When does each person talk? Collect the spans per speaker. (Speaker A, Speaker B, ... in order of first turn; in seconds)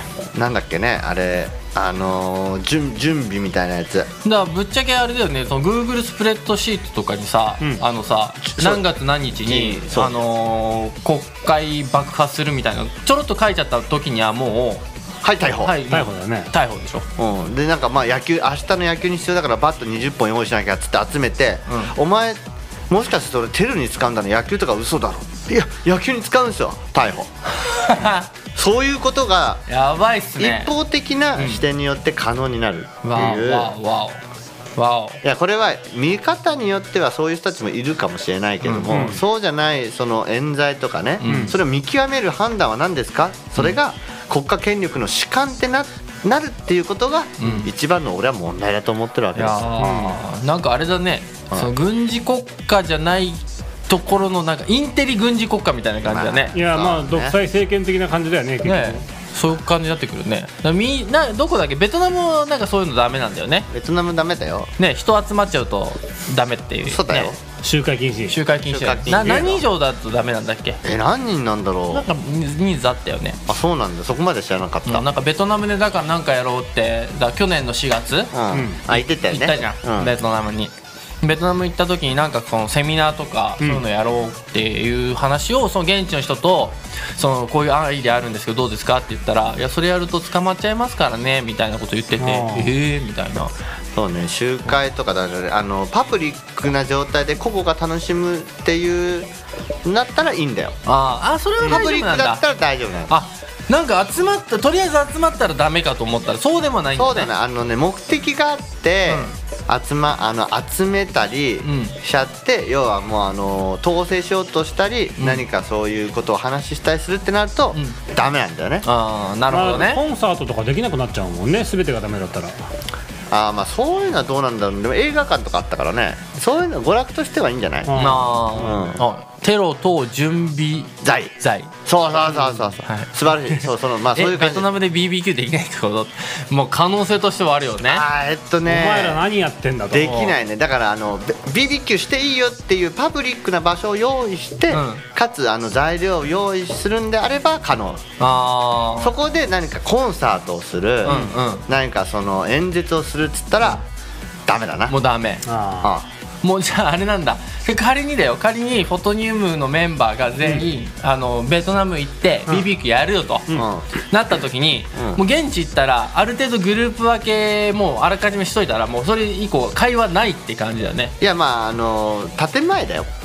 Speaker A: 0.3-4.1, 8.5-8.8, 9.4-10.2, 15.2-15.8, 17.2-27.3, 28.6-29.6, 30.4-33.7, 35.2-49.7, 56.0-57.4, 63.7-64.7, 66.8-67.4, 68.7-69.7, 70.8-72.1, 73.5-75.1, 78.3-80.1, 93.9-99.3, 99.8-100.8, 101.6-103.1, 107.0-118.9, 123.3-128.0, 128.5-129.0, 131.0-131.3, 131.9-134.7, 137.8-139.2, 139.9-148.0, 149.0-153.8, 154.5-155.0, 155.8-156.1, 163.5-163.9, 165.0-165.2, 171.2-173.1
Speaker B: 4.2-14.8, 15.4-17.1, 21.7-21.9, 27.6-28.3, 29.7-30.7, 31.4-31.6, 33.0-34.2, 34.8-35.2, 38.6-39.1, 41.2-41.5, 47.4-47.7, 49.4-56.5, 58.6-63.7, 64.8-67.3, 68.3-70.8, 71.9-73.4, 74.9-78.3, 78.9-93.5, 100.9-102.4, 103.1-107.3, 109.1-109.3, 111.6-112.0, 115.2-115.4, 118.8-120.0, 128.0-131.7, 132.8-138.0, 140.0-140.3, 144.7-145.0, 148.2-149.1, 151.0-151.7, 154.9-155.5, 156.4-171.2
Speaker C: 15.9-16.5, 38.9-39.2, 41.2-41.5, 49.8-50.2, 56.5-59.0, 67.6-68.4, 78.5-78.8, 92.2-92.7, 119.5-122.6, 127.9-128.8, 138.7-140.1, 151.1-151.3, 155.4-155.9, 160.4-160.7